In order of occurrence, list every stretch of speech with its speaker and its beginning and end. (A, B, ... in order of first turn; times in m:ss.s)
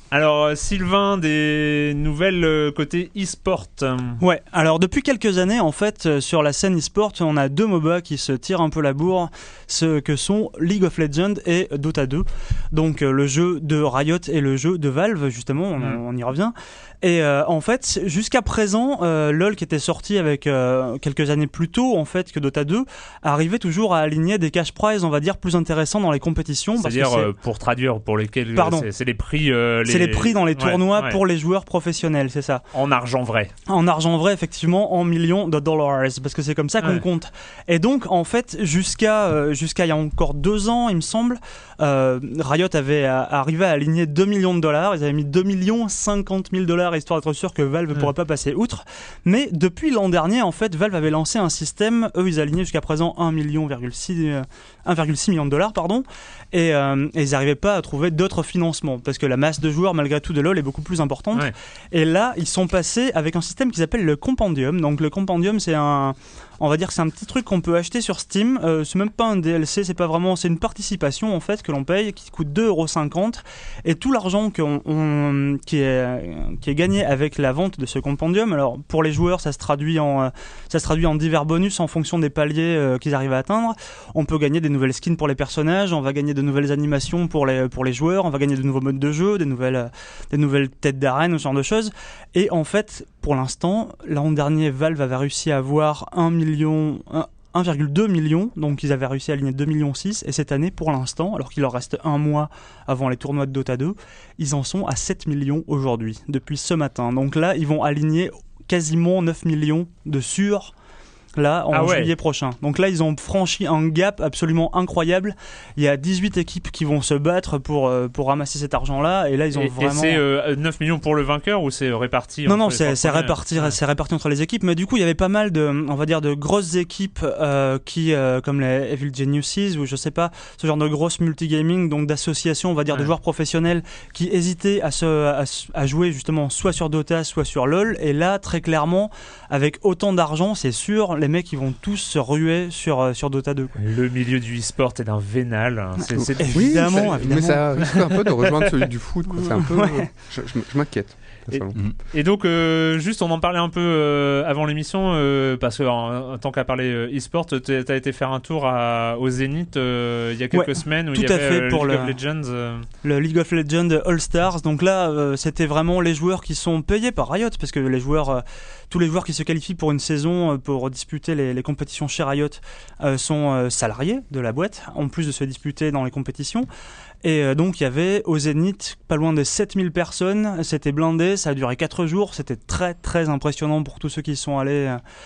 0:00.1-0:04.2 A
0:04.2-0:27.3 B
0:26.8-0:31.2 A
0:28.5-0:28.9 B
0:29.8-0:32.6 B
0:32.7-0:33.5 A
0:33.7-1:50.7 B
1:51.4-2:00.2 B
1:51.7-1:52.1 A
1:59.5-2:03.8 A
2:02.4-2:23.8 B
2:23.8-2:28.0 A
2:26.2-2:31.8 C
2:26.4-2:27.6 B
2:29.4-2:30.1 B
2:31.5-2:42.8 A
2:40.5-2:42.1 B
2:43.0-2:56.7 B
2:57.2-3:05.0 B